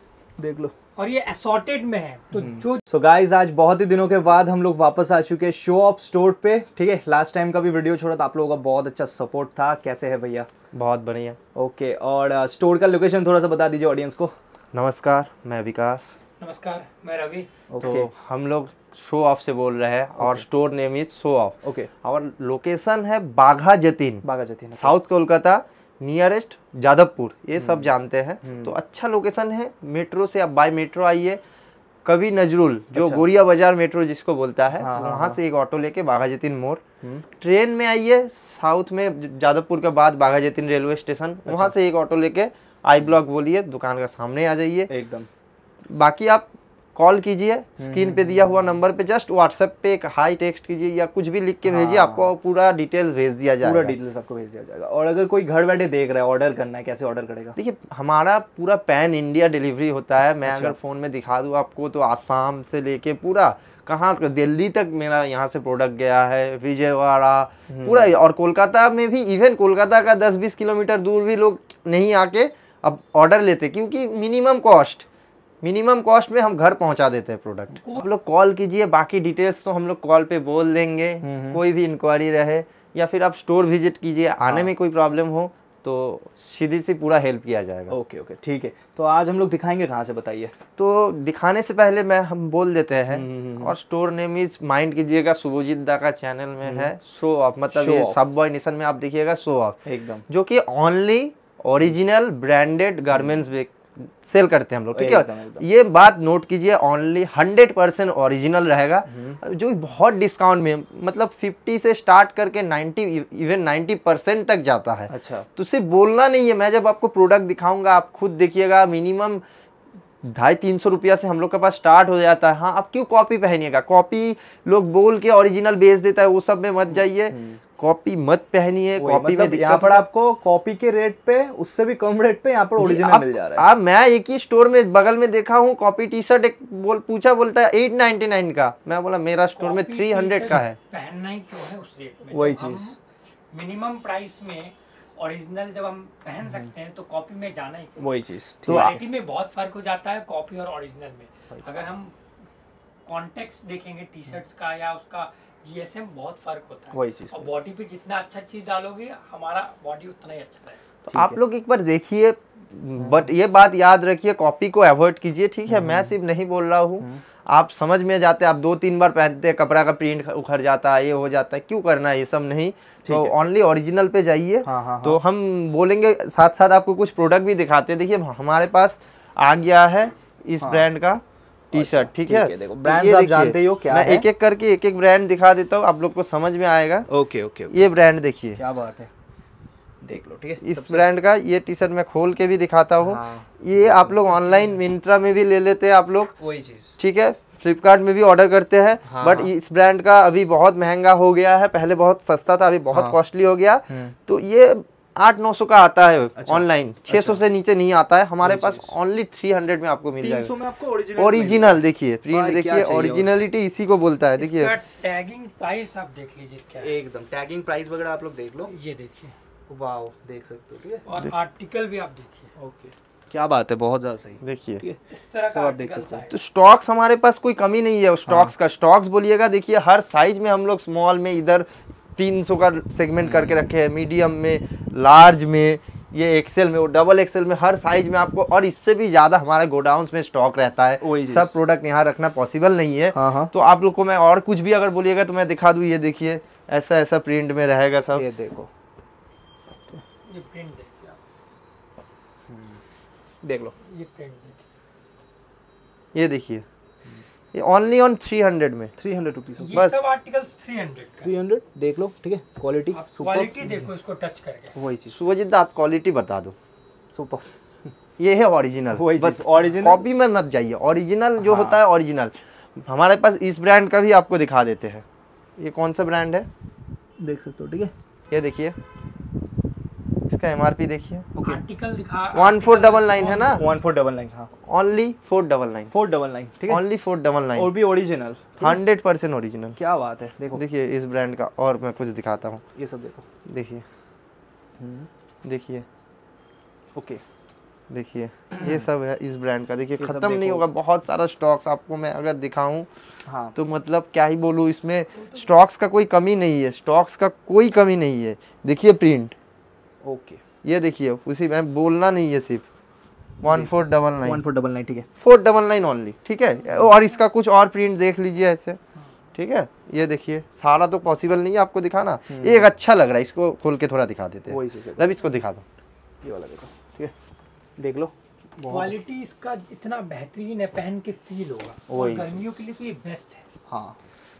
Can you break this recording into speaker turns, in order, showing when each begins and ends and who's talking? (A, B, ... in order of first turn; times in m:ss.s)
0:00.4-0:00.7 A
0:01.0-0:02.8 B
0:02.3-0:10.5 A
0:10.7-0:11.4 C
0:11.5-0:14.3 A
0:14.7-0:16.2 C
0:16.4-0:17.5 B
0:17.7-0:18.1 A
0:17.8-0:24.2 C
0:20.2-0:20.4 A
0:21.6-0:21.9 A
0:24.2-0:25.0 A
0:24.8-0:31.4 C
0:27.6-0:27.9 A
0:28.4-0:28.7 A
0:32.0-0:36.8 C
0:32.9-0:33.2 A
0:34.7-0:35.4 A
0:37.4-0:44.9 C
0:41.4-0:41.7 A
0:44.9-0:45.3 A
0:45.9-0:54.0 C
0:47.8-0:48.7 A
0:51.6-0:52.3 A
0:53.6-0:57.5 A
0:57.5-1:15.0 C
1:00.4-1:00.8 A
1:07.7-1:08.1 A
1:15.6-1:27.9 C
1:21.2-1:21.6 A
1:24.4-1:24.7 A
1:27.9-1:30.5 A
1:30.8-1:59.4 C
1:33.1-1:33.7 A
1:36.6-1:36.9 A
1:37.7-1:38.2 A
1:39.8-1:40.2 A
1:43.1-1:43.4 A
1:44.9-1:45.6 A
1:49.1-1:49.4 A
1:55.1-1:55.5 A
2:00.2-2:10.0 C
2:06.9-2:07.6 A
2:09.0-2:13.6 A
2:12.8-2:20.8 C
2:19.6-2:23.0 B
2:22.3-2:23.0 A
2:23.5-2:28.1 B
2:26.4-2:26.7 A
2:28.0-2:29.0 A
2:28.7-2:29.0 C
2:28.7-2:32.1 B
2:33.0-2:40.8 B
2:36.9-2:37.5 A
2:41.0-3:07.1 C
2:41.1-2:41.4 A
2:43.0-2:43.3 A
2:45.7-2:46.1 A
2:53.0-2:53.3 A
2:54.6-2:55.2 A
3:00.6-3:00.9 A
3:01.7-3:04.3 A
3:07.1-3:07.9 A
3:07.7-3:08.6 C
3:08.6-3:09.1 A
3:10.0-3:11.1 A
3:10.6-3:16.3 C
3:13.0-3:14.8 A
3:16.4-3:17.0 A
3:17.0-3:30.5 C
3:19.0-3:19.5 A
3:22.9-3:23.2 A
3:23.9-3:24.1 A
3:26.4-3:27.4 A
3:28.4-3:28.9 A
3:30.2-3:33.3 A
3:31.2-3:34.7 C
3:34.4-3:36.9 B
3:36.8-3:38.7 A
3:38.7-3:39.3 B
3:39.7-3:41.0 A
3:41.0-3:42.5 B
3:42.6-3:45.0 A
3:44.4-3:44.8 C
3:45.1-3:46.4 B
3:45.5-3:46.3 A
3:46.3-4:08.2 C
3:48.2-3:48.5 A
3:53.2-3:53.7 A
4:01.0-4:01.6 A
4:03.1-4:03.5 A
4:08.1-4:08.7 A
4:10.3-4:11.2 B
4:12.5-4:12.8 A
4:13.4-4:13.7 A
4:13.8-4:14.6 B
4:16.1-4:16.6 C
4:17.5-4:18.9 C
4:19.0-4:19.8 A
4:19.6-4:21.3 B
4:19.7-4:20.0 C
4:21.2-4:23.8 A
4:22.9-4:24.7 B
4:24.7-4:25.2 A
4:25.1-4:26.5 C
4:27.1-4:27.9 A
4:28.2-4:35.0 C
4:28.9-4:30.0 A
4:31.4-4:31.8 A
4:35.6-4:36.5 C
4:37.2-4:37.9 A
4:38.3-4:38.8 C
4:40.3-4:41.3 C
4:41.3-4:41.6 A
4:41.4-4:43.6 B
4:42.3-4:43.6 C
4:43.4-4:44.5 A
4:44.7-4:45.9 C
4:45.9-4:46.8 A
4:46.7-4:47.7 C
4:47.5-4:48.8 A
4:48.6-4:49.8 C
4:49.8-4:50.6 A
4:50.5-4:52.6 C
4:52.7-4:53.2 A
4:53.4-4:53.8 C
4:54.8-4:55.1 A
4:55.4-4:55.8 C
4:56.9-4:57.2 A
4:57.9-5:02.9 C
4:58.5-4:58.9 A
5:00.0-5:00.6 A
5:03.2-5:03.6 A
5:03.5-5:09.4 C
5:10.0-5:10.4 A
5:10.6-5:12.6 C
5:13.4-5:14.4 C
5:13.4-5:15.1 A
5:15.2-5:18.8 C
5:19.3-5:25.6 C
5:22.3-5:22.7 A
5:24.5-5:25.1 A
5:26.2-5:27.1 A
5:27.8-5:28.9 A
5:28.7-5:33.4 B
5:31.9-5:32.4 A
5:33.7-5:34.0 A